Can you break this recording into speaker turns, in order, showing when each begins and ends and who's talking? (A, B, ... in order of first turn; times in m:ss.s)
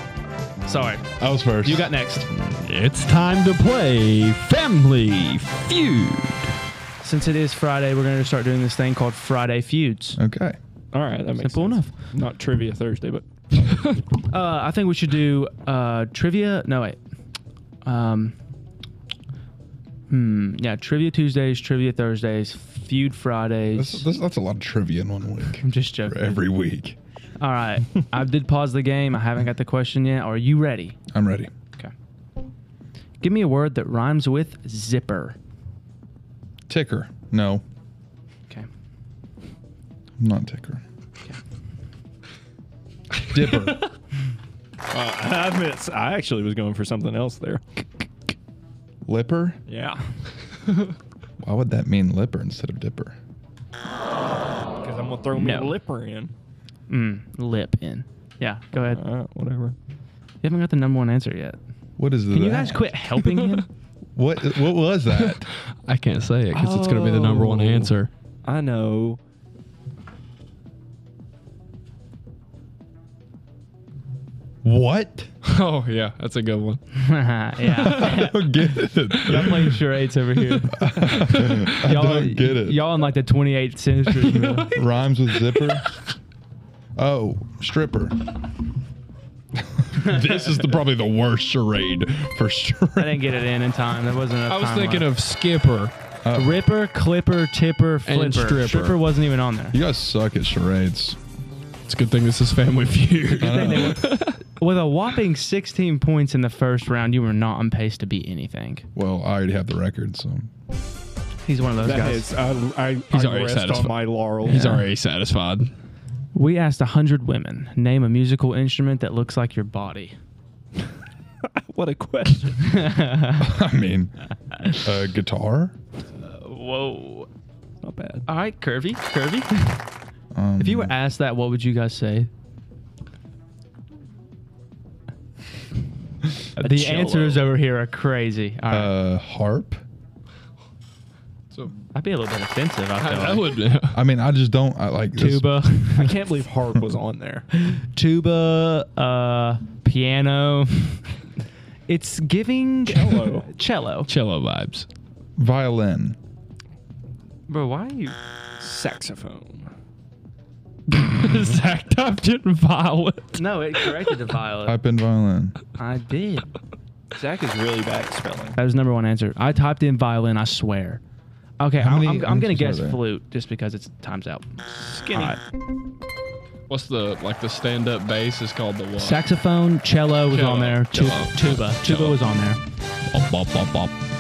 0:00.6-0:02.3 A
0:01.2-0:01.9 B
0:02.3-0:06.6 C
0:07.0-0:10.2 A
0:10.2-0:10.6 B
0:10.9-0:14.0 D
0:11.4-0:11.9 A
0:14.3-0:17.0 A
0:17.8-0:18.4 A
0:20.1-0:24.1 A
0:23.8-0:27.0 B
0:25.6-0:26.4 A
0:27.4-0:31.0 A
0:31.1-0:31.5 B
0:33.2-0:35.4 A
0:36.7-0:37.6 B
0:40.2-0:40.8 B
0:43.3-0:43.8 B
0:44.9-0:48.1 D
0:49.0-0:49.6 B
0:49.7-0:50.0 D
0:51.4-0:53.2 B
0:54.8-0:56.3 D
0:55.4-0:55.8 A
0:56.9-0:59.0 A
0:58.8-0:59.8 D
1:00.4-1:01.6 A
1:02.0-1:03.0 B
1:02.3-1:03.7 A
1:04.2-1:05.4 B
1:05.1-1:08.1 C
1:06.5-1:09.2 D
1:14.6-1:15.3 B
1:15.4-1:16.8 C
1:17.0-1:18.5 A
1:17.7-1:19.8 B
1:19.1-1:24.7 A
1:20.7-1:23.0 B
1:24.3-1:24.8 C
1:24.6-1:25.9 B
1:27.0-1:28.3 B
1:29.8-1:33.3 B
1:33.0-1:35.1 A
1:34.5-1:35.9 C
1:36.2-1:36.6 B
1:36.3-1:39.8 A
1:38.1-1:39.0 C
1:39.7-1:41.2 B
1:41.9-1:44.4 C
1:43.4-1:48.9 A
1:43.4-1:44.1 B
1:49.0-1:50.5 B
1:51.4-1:52.3 A
1:51.8-1:54.9 D
1:53.1-1:55.7 C
1:56.3-2:00.2 A
2:01.5-2:02.9 D
2:02.6-2:03.6 A
2:03.4-2:05.8 B
2:04.5-2:04.8 A
2:06.2-2:07.3 A
2:07.8-2:08.3 D
2:08.3-2:09.8 A
2:10.3-2:10.9 B
2:10.6-2:12.3 A
2:16.6-2:18.9 A
2:16.6-2:17.5 D
2:18.7-2:19.8 B
2:21.9-2:23.5 A
2:23.0-2:24.0 C
2:23.9-2:25.5 B
2:25.2-2:26.2 A
2:25.9-2:27.5 D
2:27.5-2:31.1 A
2:31.9-2:34.1 A
2:32.8-2:33.5 D
2:34.1-2:34.9 C
2:35.4-2:36.2 B
2:37.5-2:38.2 A
2:38.6-2:39.7 D
2:40.9-2:43.4 C
2:43.4-2:44.8 A
2:44.6-2:45.6 B
2:45.8-2:46.5 A
2:47.1-2:48.6 D
2:48.6-2:51.0 A
2:51.6-2:55.4 A
2:51.8-2:53.0 B
2:54.7-2:55.4 D
2:56.7-2:59.2 C
2:59.0-3:02.6 A
3:00.3-3:02.2 C
3:03.1-3:04.0 C